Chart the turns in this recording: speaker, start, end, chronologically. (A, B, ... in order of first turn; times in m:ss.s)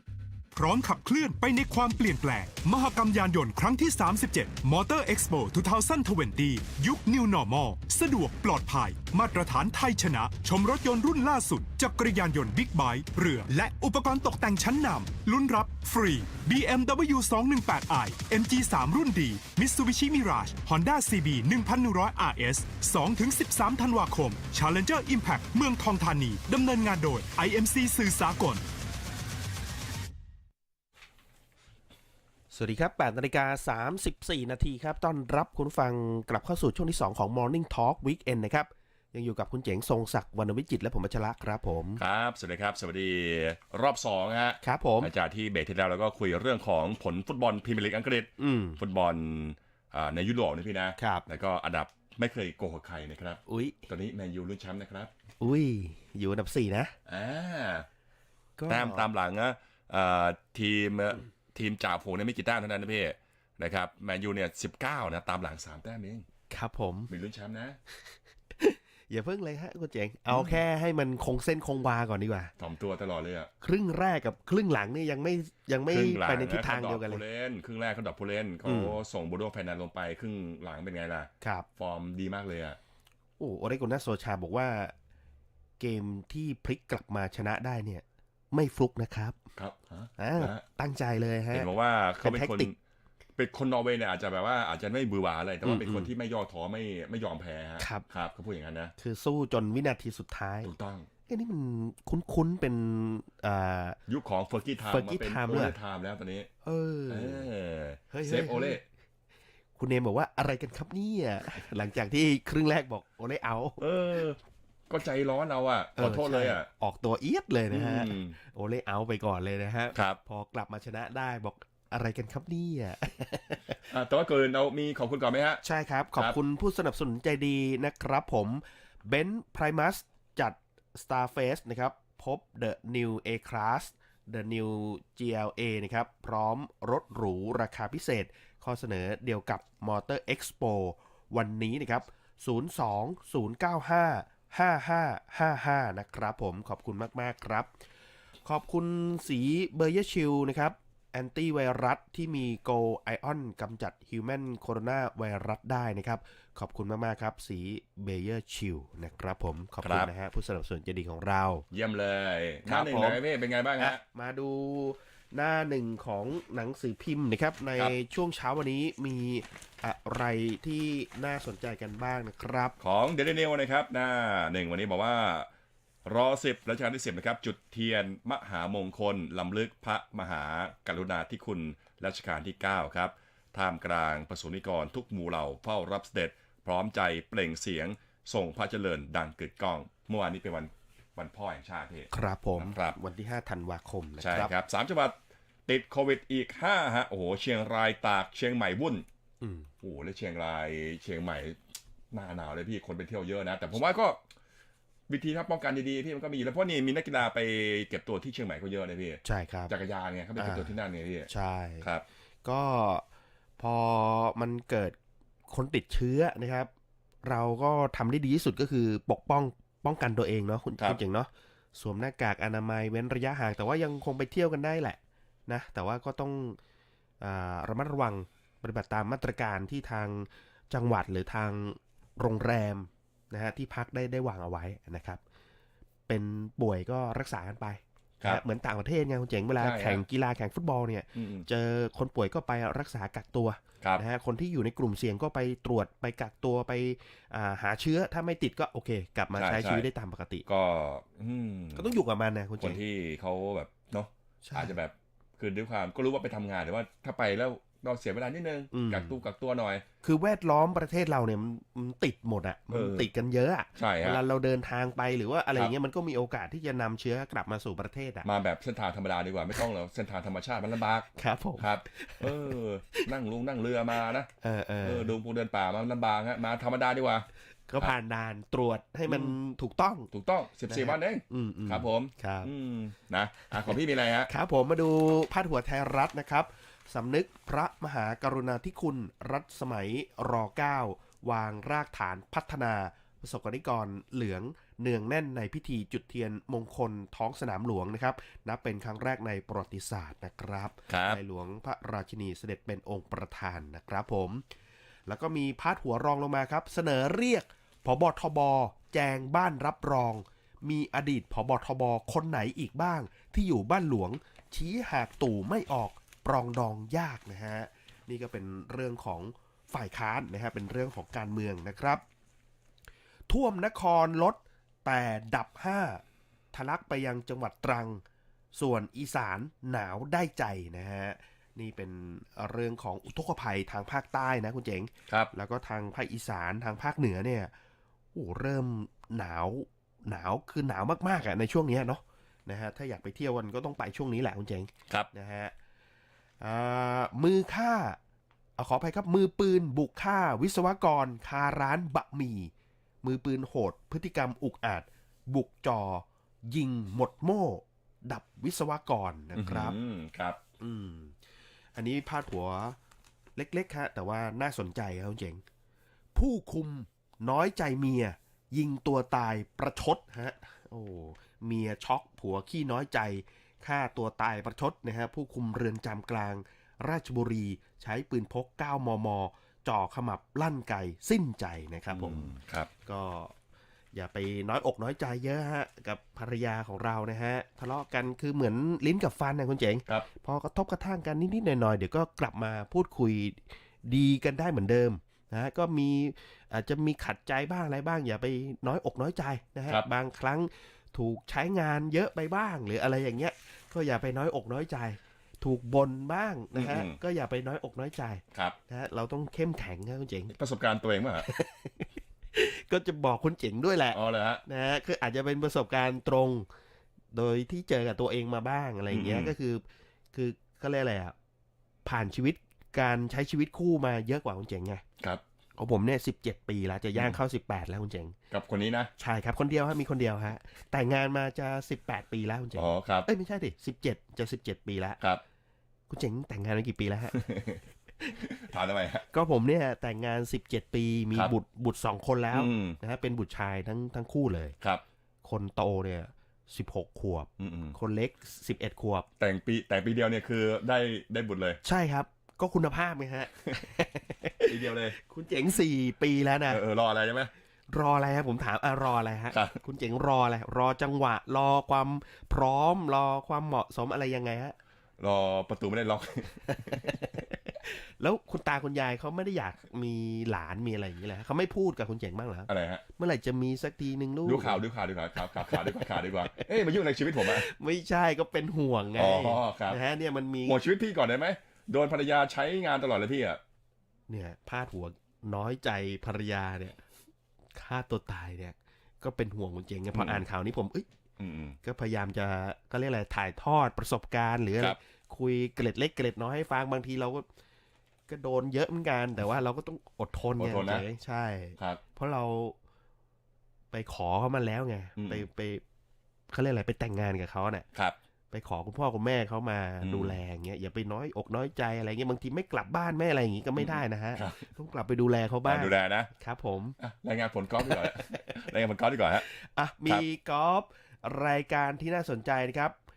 0:00.5-0:28.6 A
0:32.5-0:42.0 B
0:42.0-0:55.1 C
0:44.6-0:45.1 B
0:48.4-0:48.8 B
0:51.0-0:51.2 B
0:53.5-0:53.9 B
0:55.4-0:56.9 B
0:57.0-0:57.9 C
0:58.6-0:59.0 B
0:58.7-1:06.2 C
1:06.5-1:07.1 B
1:07.1-1:07.8 C
1:08.6-1:12.5 B
1:10.3-1:10.6 C
1:12.6-1:13.5 C
1:13.6-1:17.2 B
1:15.9-1:22.8 C
1:18.6-1:19.0 B
1:21.4-1:21.6 B
1:23.4-1:24.9 B
1:25.8-1:29.4 B
1:29.6-1:30.6 C
1:30.2-1:31.7 B
1:31.5-1:32.7 C
1:32.2-1:32.7 B
1:33.4-1:38.9 C
1:35.6-1:36.1 B
1:37.8-1:38.0 B
1:39.0-1:40.7 B
1:40.6-1:41.1 C
1:41.3-1:44.0 B
1:44.1-1:46.5 C
1:44.9-1:45.7 B
1:46.6-1:47.5 B
1:47.1-1:48.8 C
1:48.1-1:48.8 B
1:49.8-1:53.8 B
1:53.8-1:56.7 C
1:56.0-2:03.8 B
1:57.7-1:58.4 C
1:59.9-2:00.2 C
2:03.9-2:05.6 C
2:05.6-2:27.7 B
2:28.4-2:41.6 B
2:39.8-2:40.1 C
2:41.7-2:44.0 C
2:42.6-2:43.2 B
2:43.8-2:52.8 B
2:52.8-2:55.5 C
2:56.0-3:13.0 C
3:12.1-3:14.5 B
3:14.2-3:19.0 C
3:19.4-3:19.7 B
3:19.8-3:21.6 C
3:22.1-3:24.2 C
3:25.1-3:31.3 C
3:29.2-3:29.7 B
3:30.4-3:30.7 B
3:31.3-3:31.8 B
3:32.4-3:33.0 B
3:33.6-3:35.0 B
3:35.5-3:36.7 B
3:37.2-3:46.6 B
3:47.2-3:55.2 B
3:56.1-4:10.4 B
3:59.6-4:00.0 C
4:01.1-4:01.4 C
4:09.4-4:09.9 C
4:10.4-4:11.9 C
4:11.7-4:12.8 B
4:12.6-4:19.8 C
4:14.4-4:14.7 B
4:18.7-4:19.2 B
4:20.0-4:28.2 B
4:22.7-4:23.1 C
4:23.8-4:24.2 C
4:28.2-4:34.3 C
4:31.2-4:33.1 B
4:34.4-4:35.1 B
4:34.8-4:37.3 C
4:37.7-4:40.1 B
4:39.1-4:39.3 C
4:40.1-4:44.3 C
4:40.7-4:42.5 B
4:44.3-5:04.4 B
5:00.9-5:01.2 C
5:05.1-5:22.0 B
5:23.3-5:28.0 B
5:28.5-5:37.5 B
5:38.1-5:45.5 B
5:46.4-5:48.0 B
5:48.6-5:52.5 B
5:53.0-5:59.8 B
5:59.3-6:00.4 C
6:00.6-6:01.2 B
6:01.7-6:02.8 B
6:03.4-6:05.4 B
6:06.1-6:22.3 B
6:21.9-6:22.7 C
6:22.8-6:23.3 B
6:23.9-6:50.3 B
6:46.5-6:47.0 C
6:50.3-6:51.3 C
6:51.2-6:56.5 B
6:53.9-6:54.4 C
6:57.1-7:01.1 B
6:58.9-6:59.3 C
7:01.8-7:04.8 B
7:05.6-7:08.1 B
7:08.3-7:08.9 C
7:09.0-7:15.0 B
7:12.5-7:13.1 C
7:15.9-7:17.2 B
7:17.1-7:17.6 C
7:18.2-7:19.0 C
7:19.1-7:24.6 B
7:22.3-7:22.8 C
7:25.2-7:29.1 B
7:27.4-7:27.8 C
7:29.2-7:31.6 C
7:31.6-7:36.6 B
7:34.4-7:35.0 C
7:36.5-7:37.3 C
7:37.7-7:44.5 B
7:39.3-7:39.6 C
7:45.0-7:47.0 C
7:46.6-7:54.6 B
7:52.5-7:52.8 C
7:54.2-7:57.5 C
7:57.2-8:00.6 B
7:59.0-7:59.8 C
8:00.4-8:03.4 C
8:04.1-8:06.8 B
8:07.5-8:10.9 B
8:09.9-8:10.2 C
8:11.2-8:11.6 C
8:11.6-8:17.2 B
8:18.1-8:22.6 B
8:20.4-8:20.8 C
8:23.7-8:25.6 B
8:25.0-8:25.2 C
8:26.3-8:27.6 B
8:28.3-8:36.8 B
8:29.8-8:30.2 C
8:33.6-8:34.5 C
8:35.4-8:36.1 C
8:36.8-8:39.3 C
8:37.7-8:38.2 B
8:39.3-8:42.8 B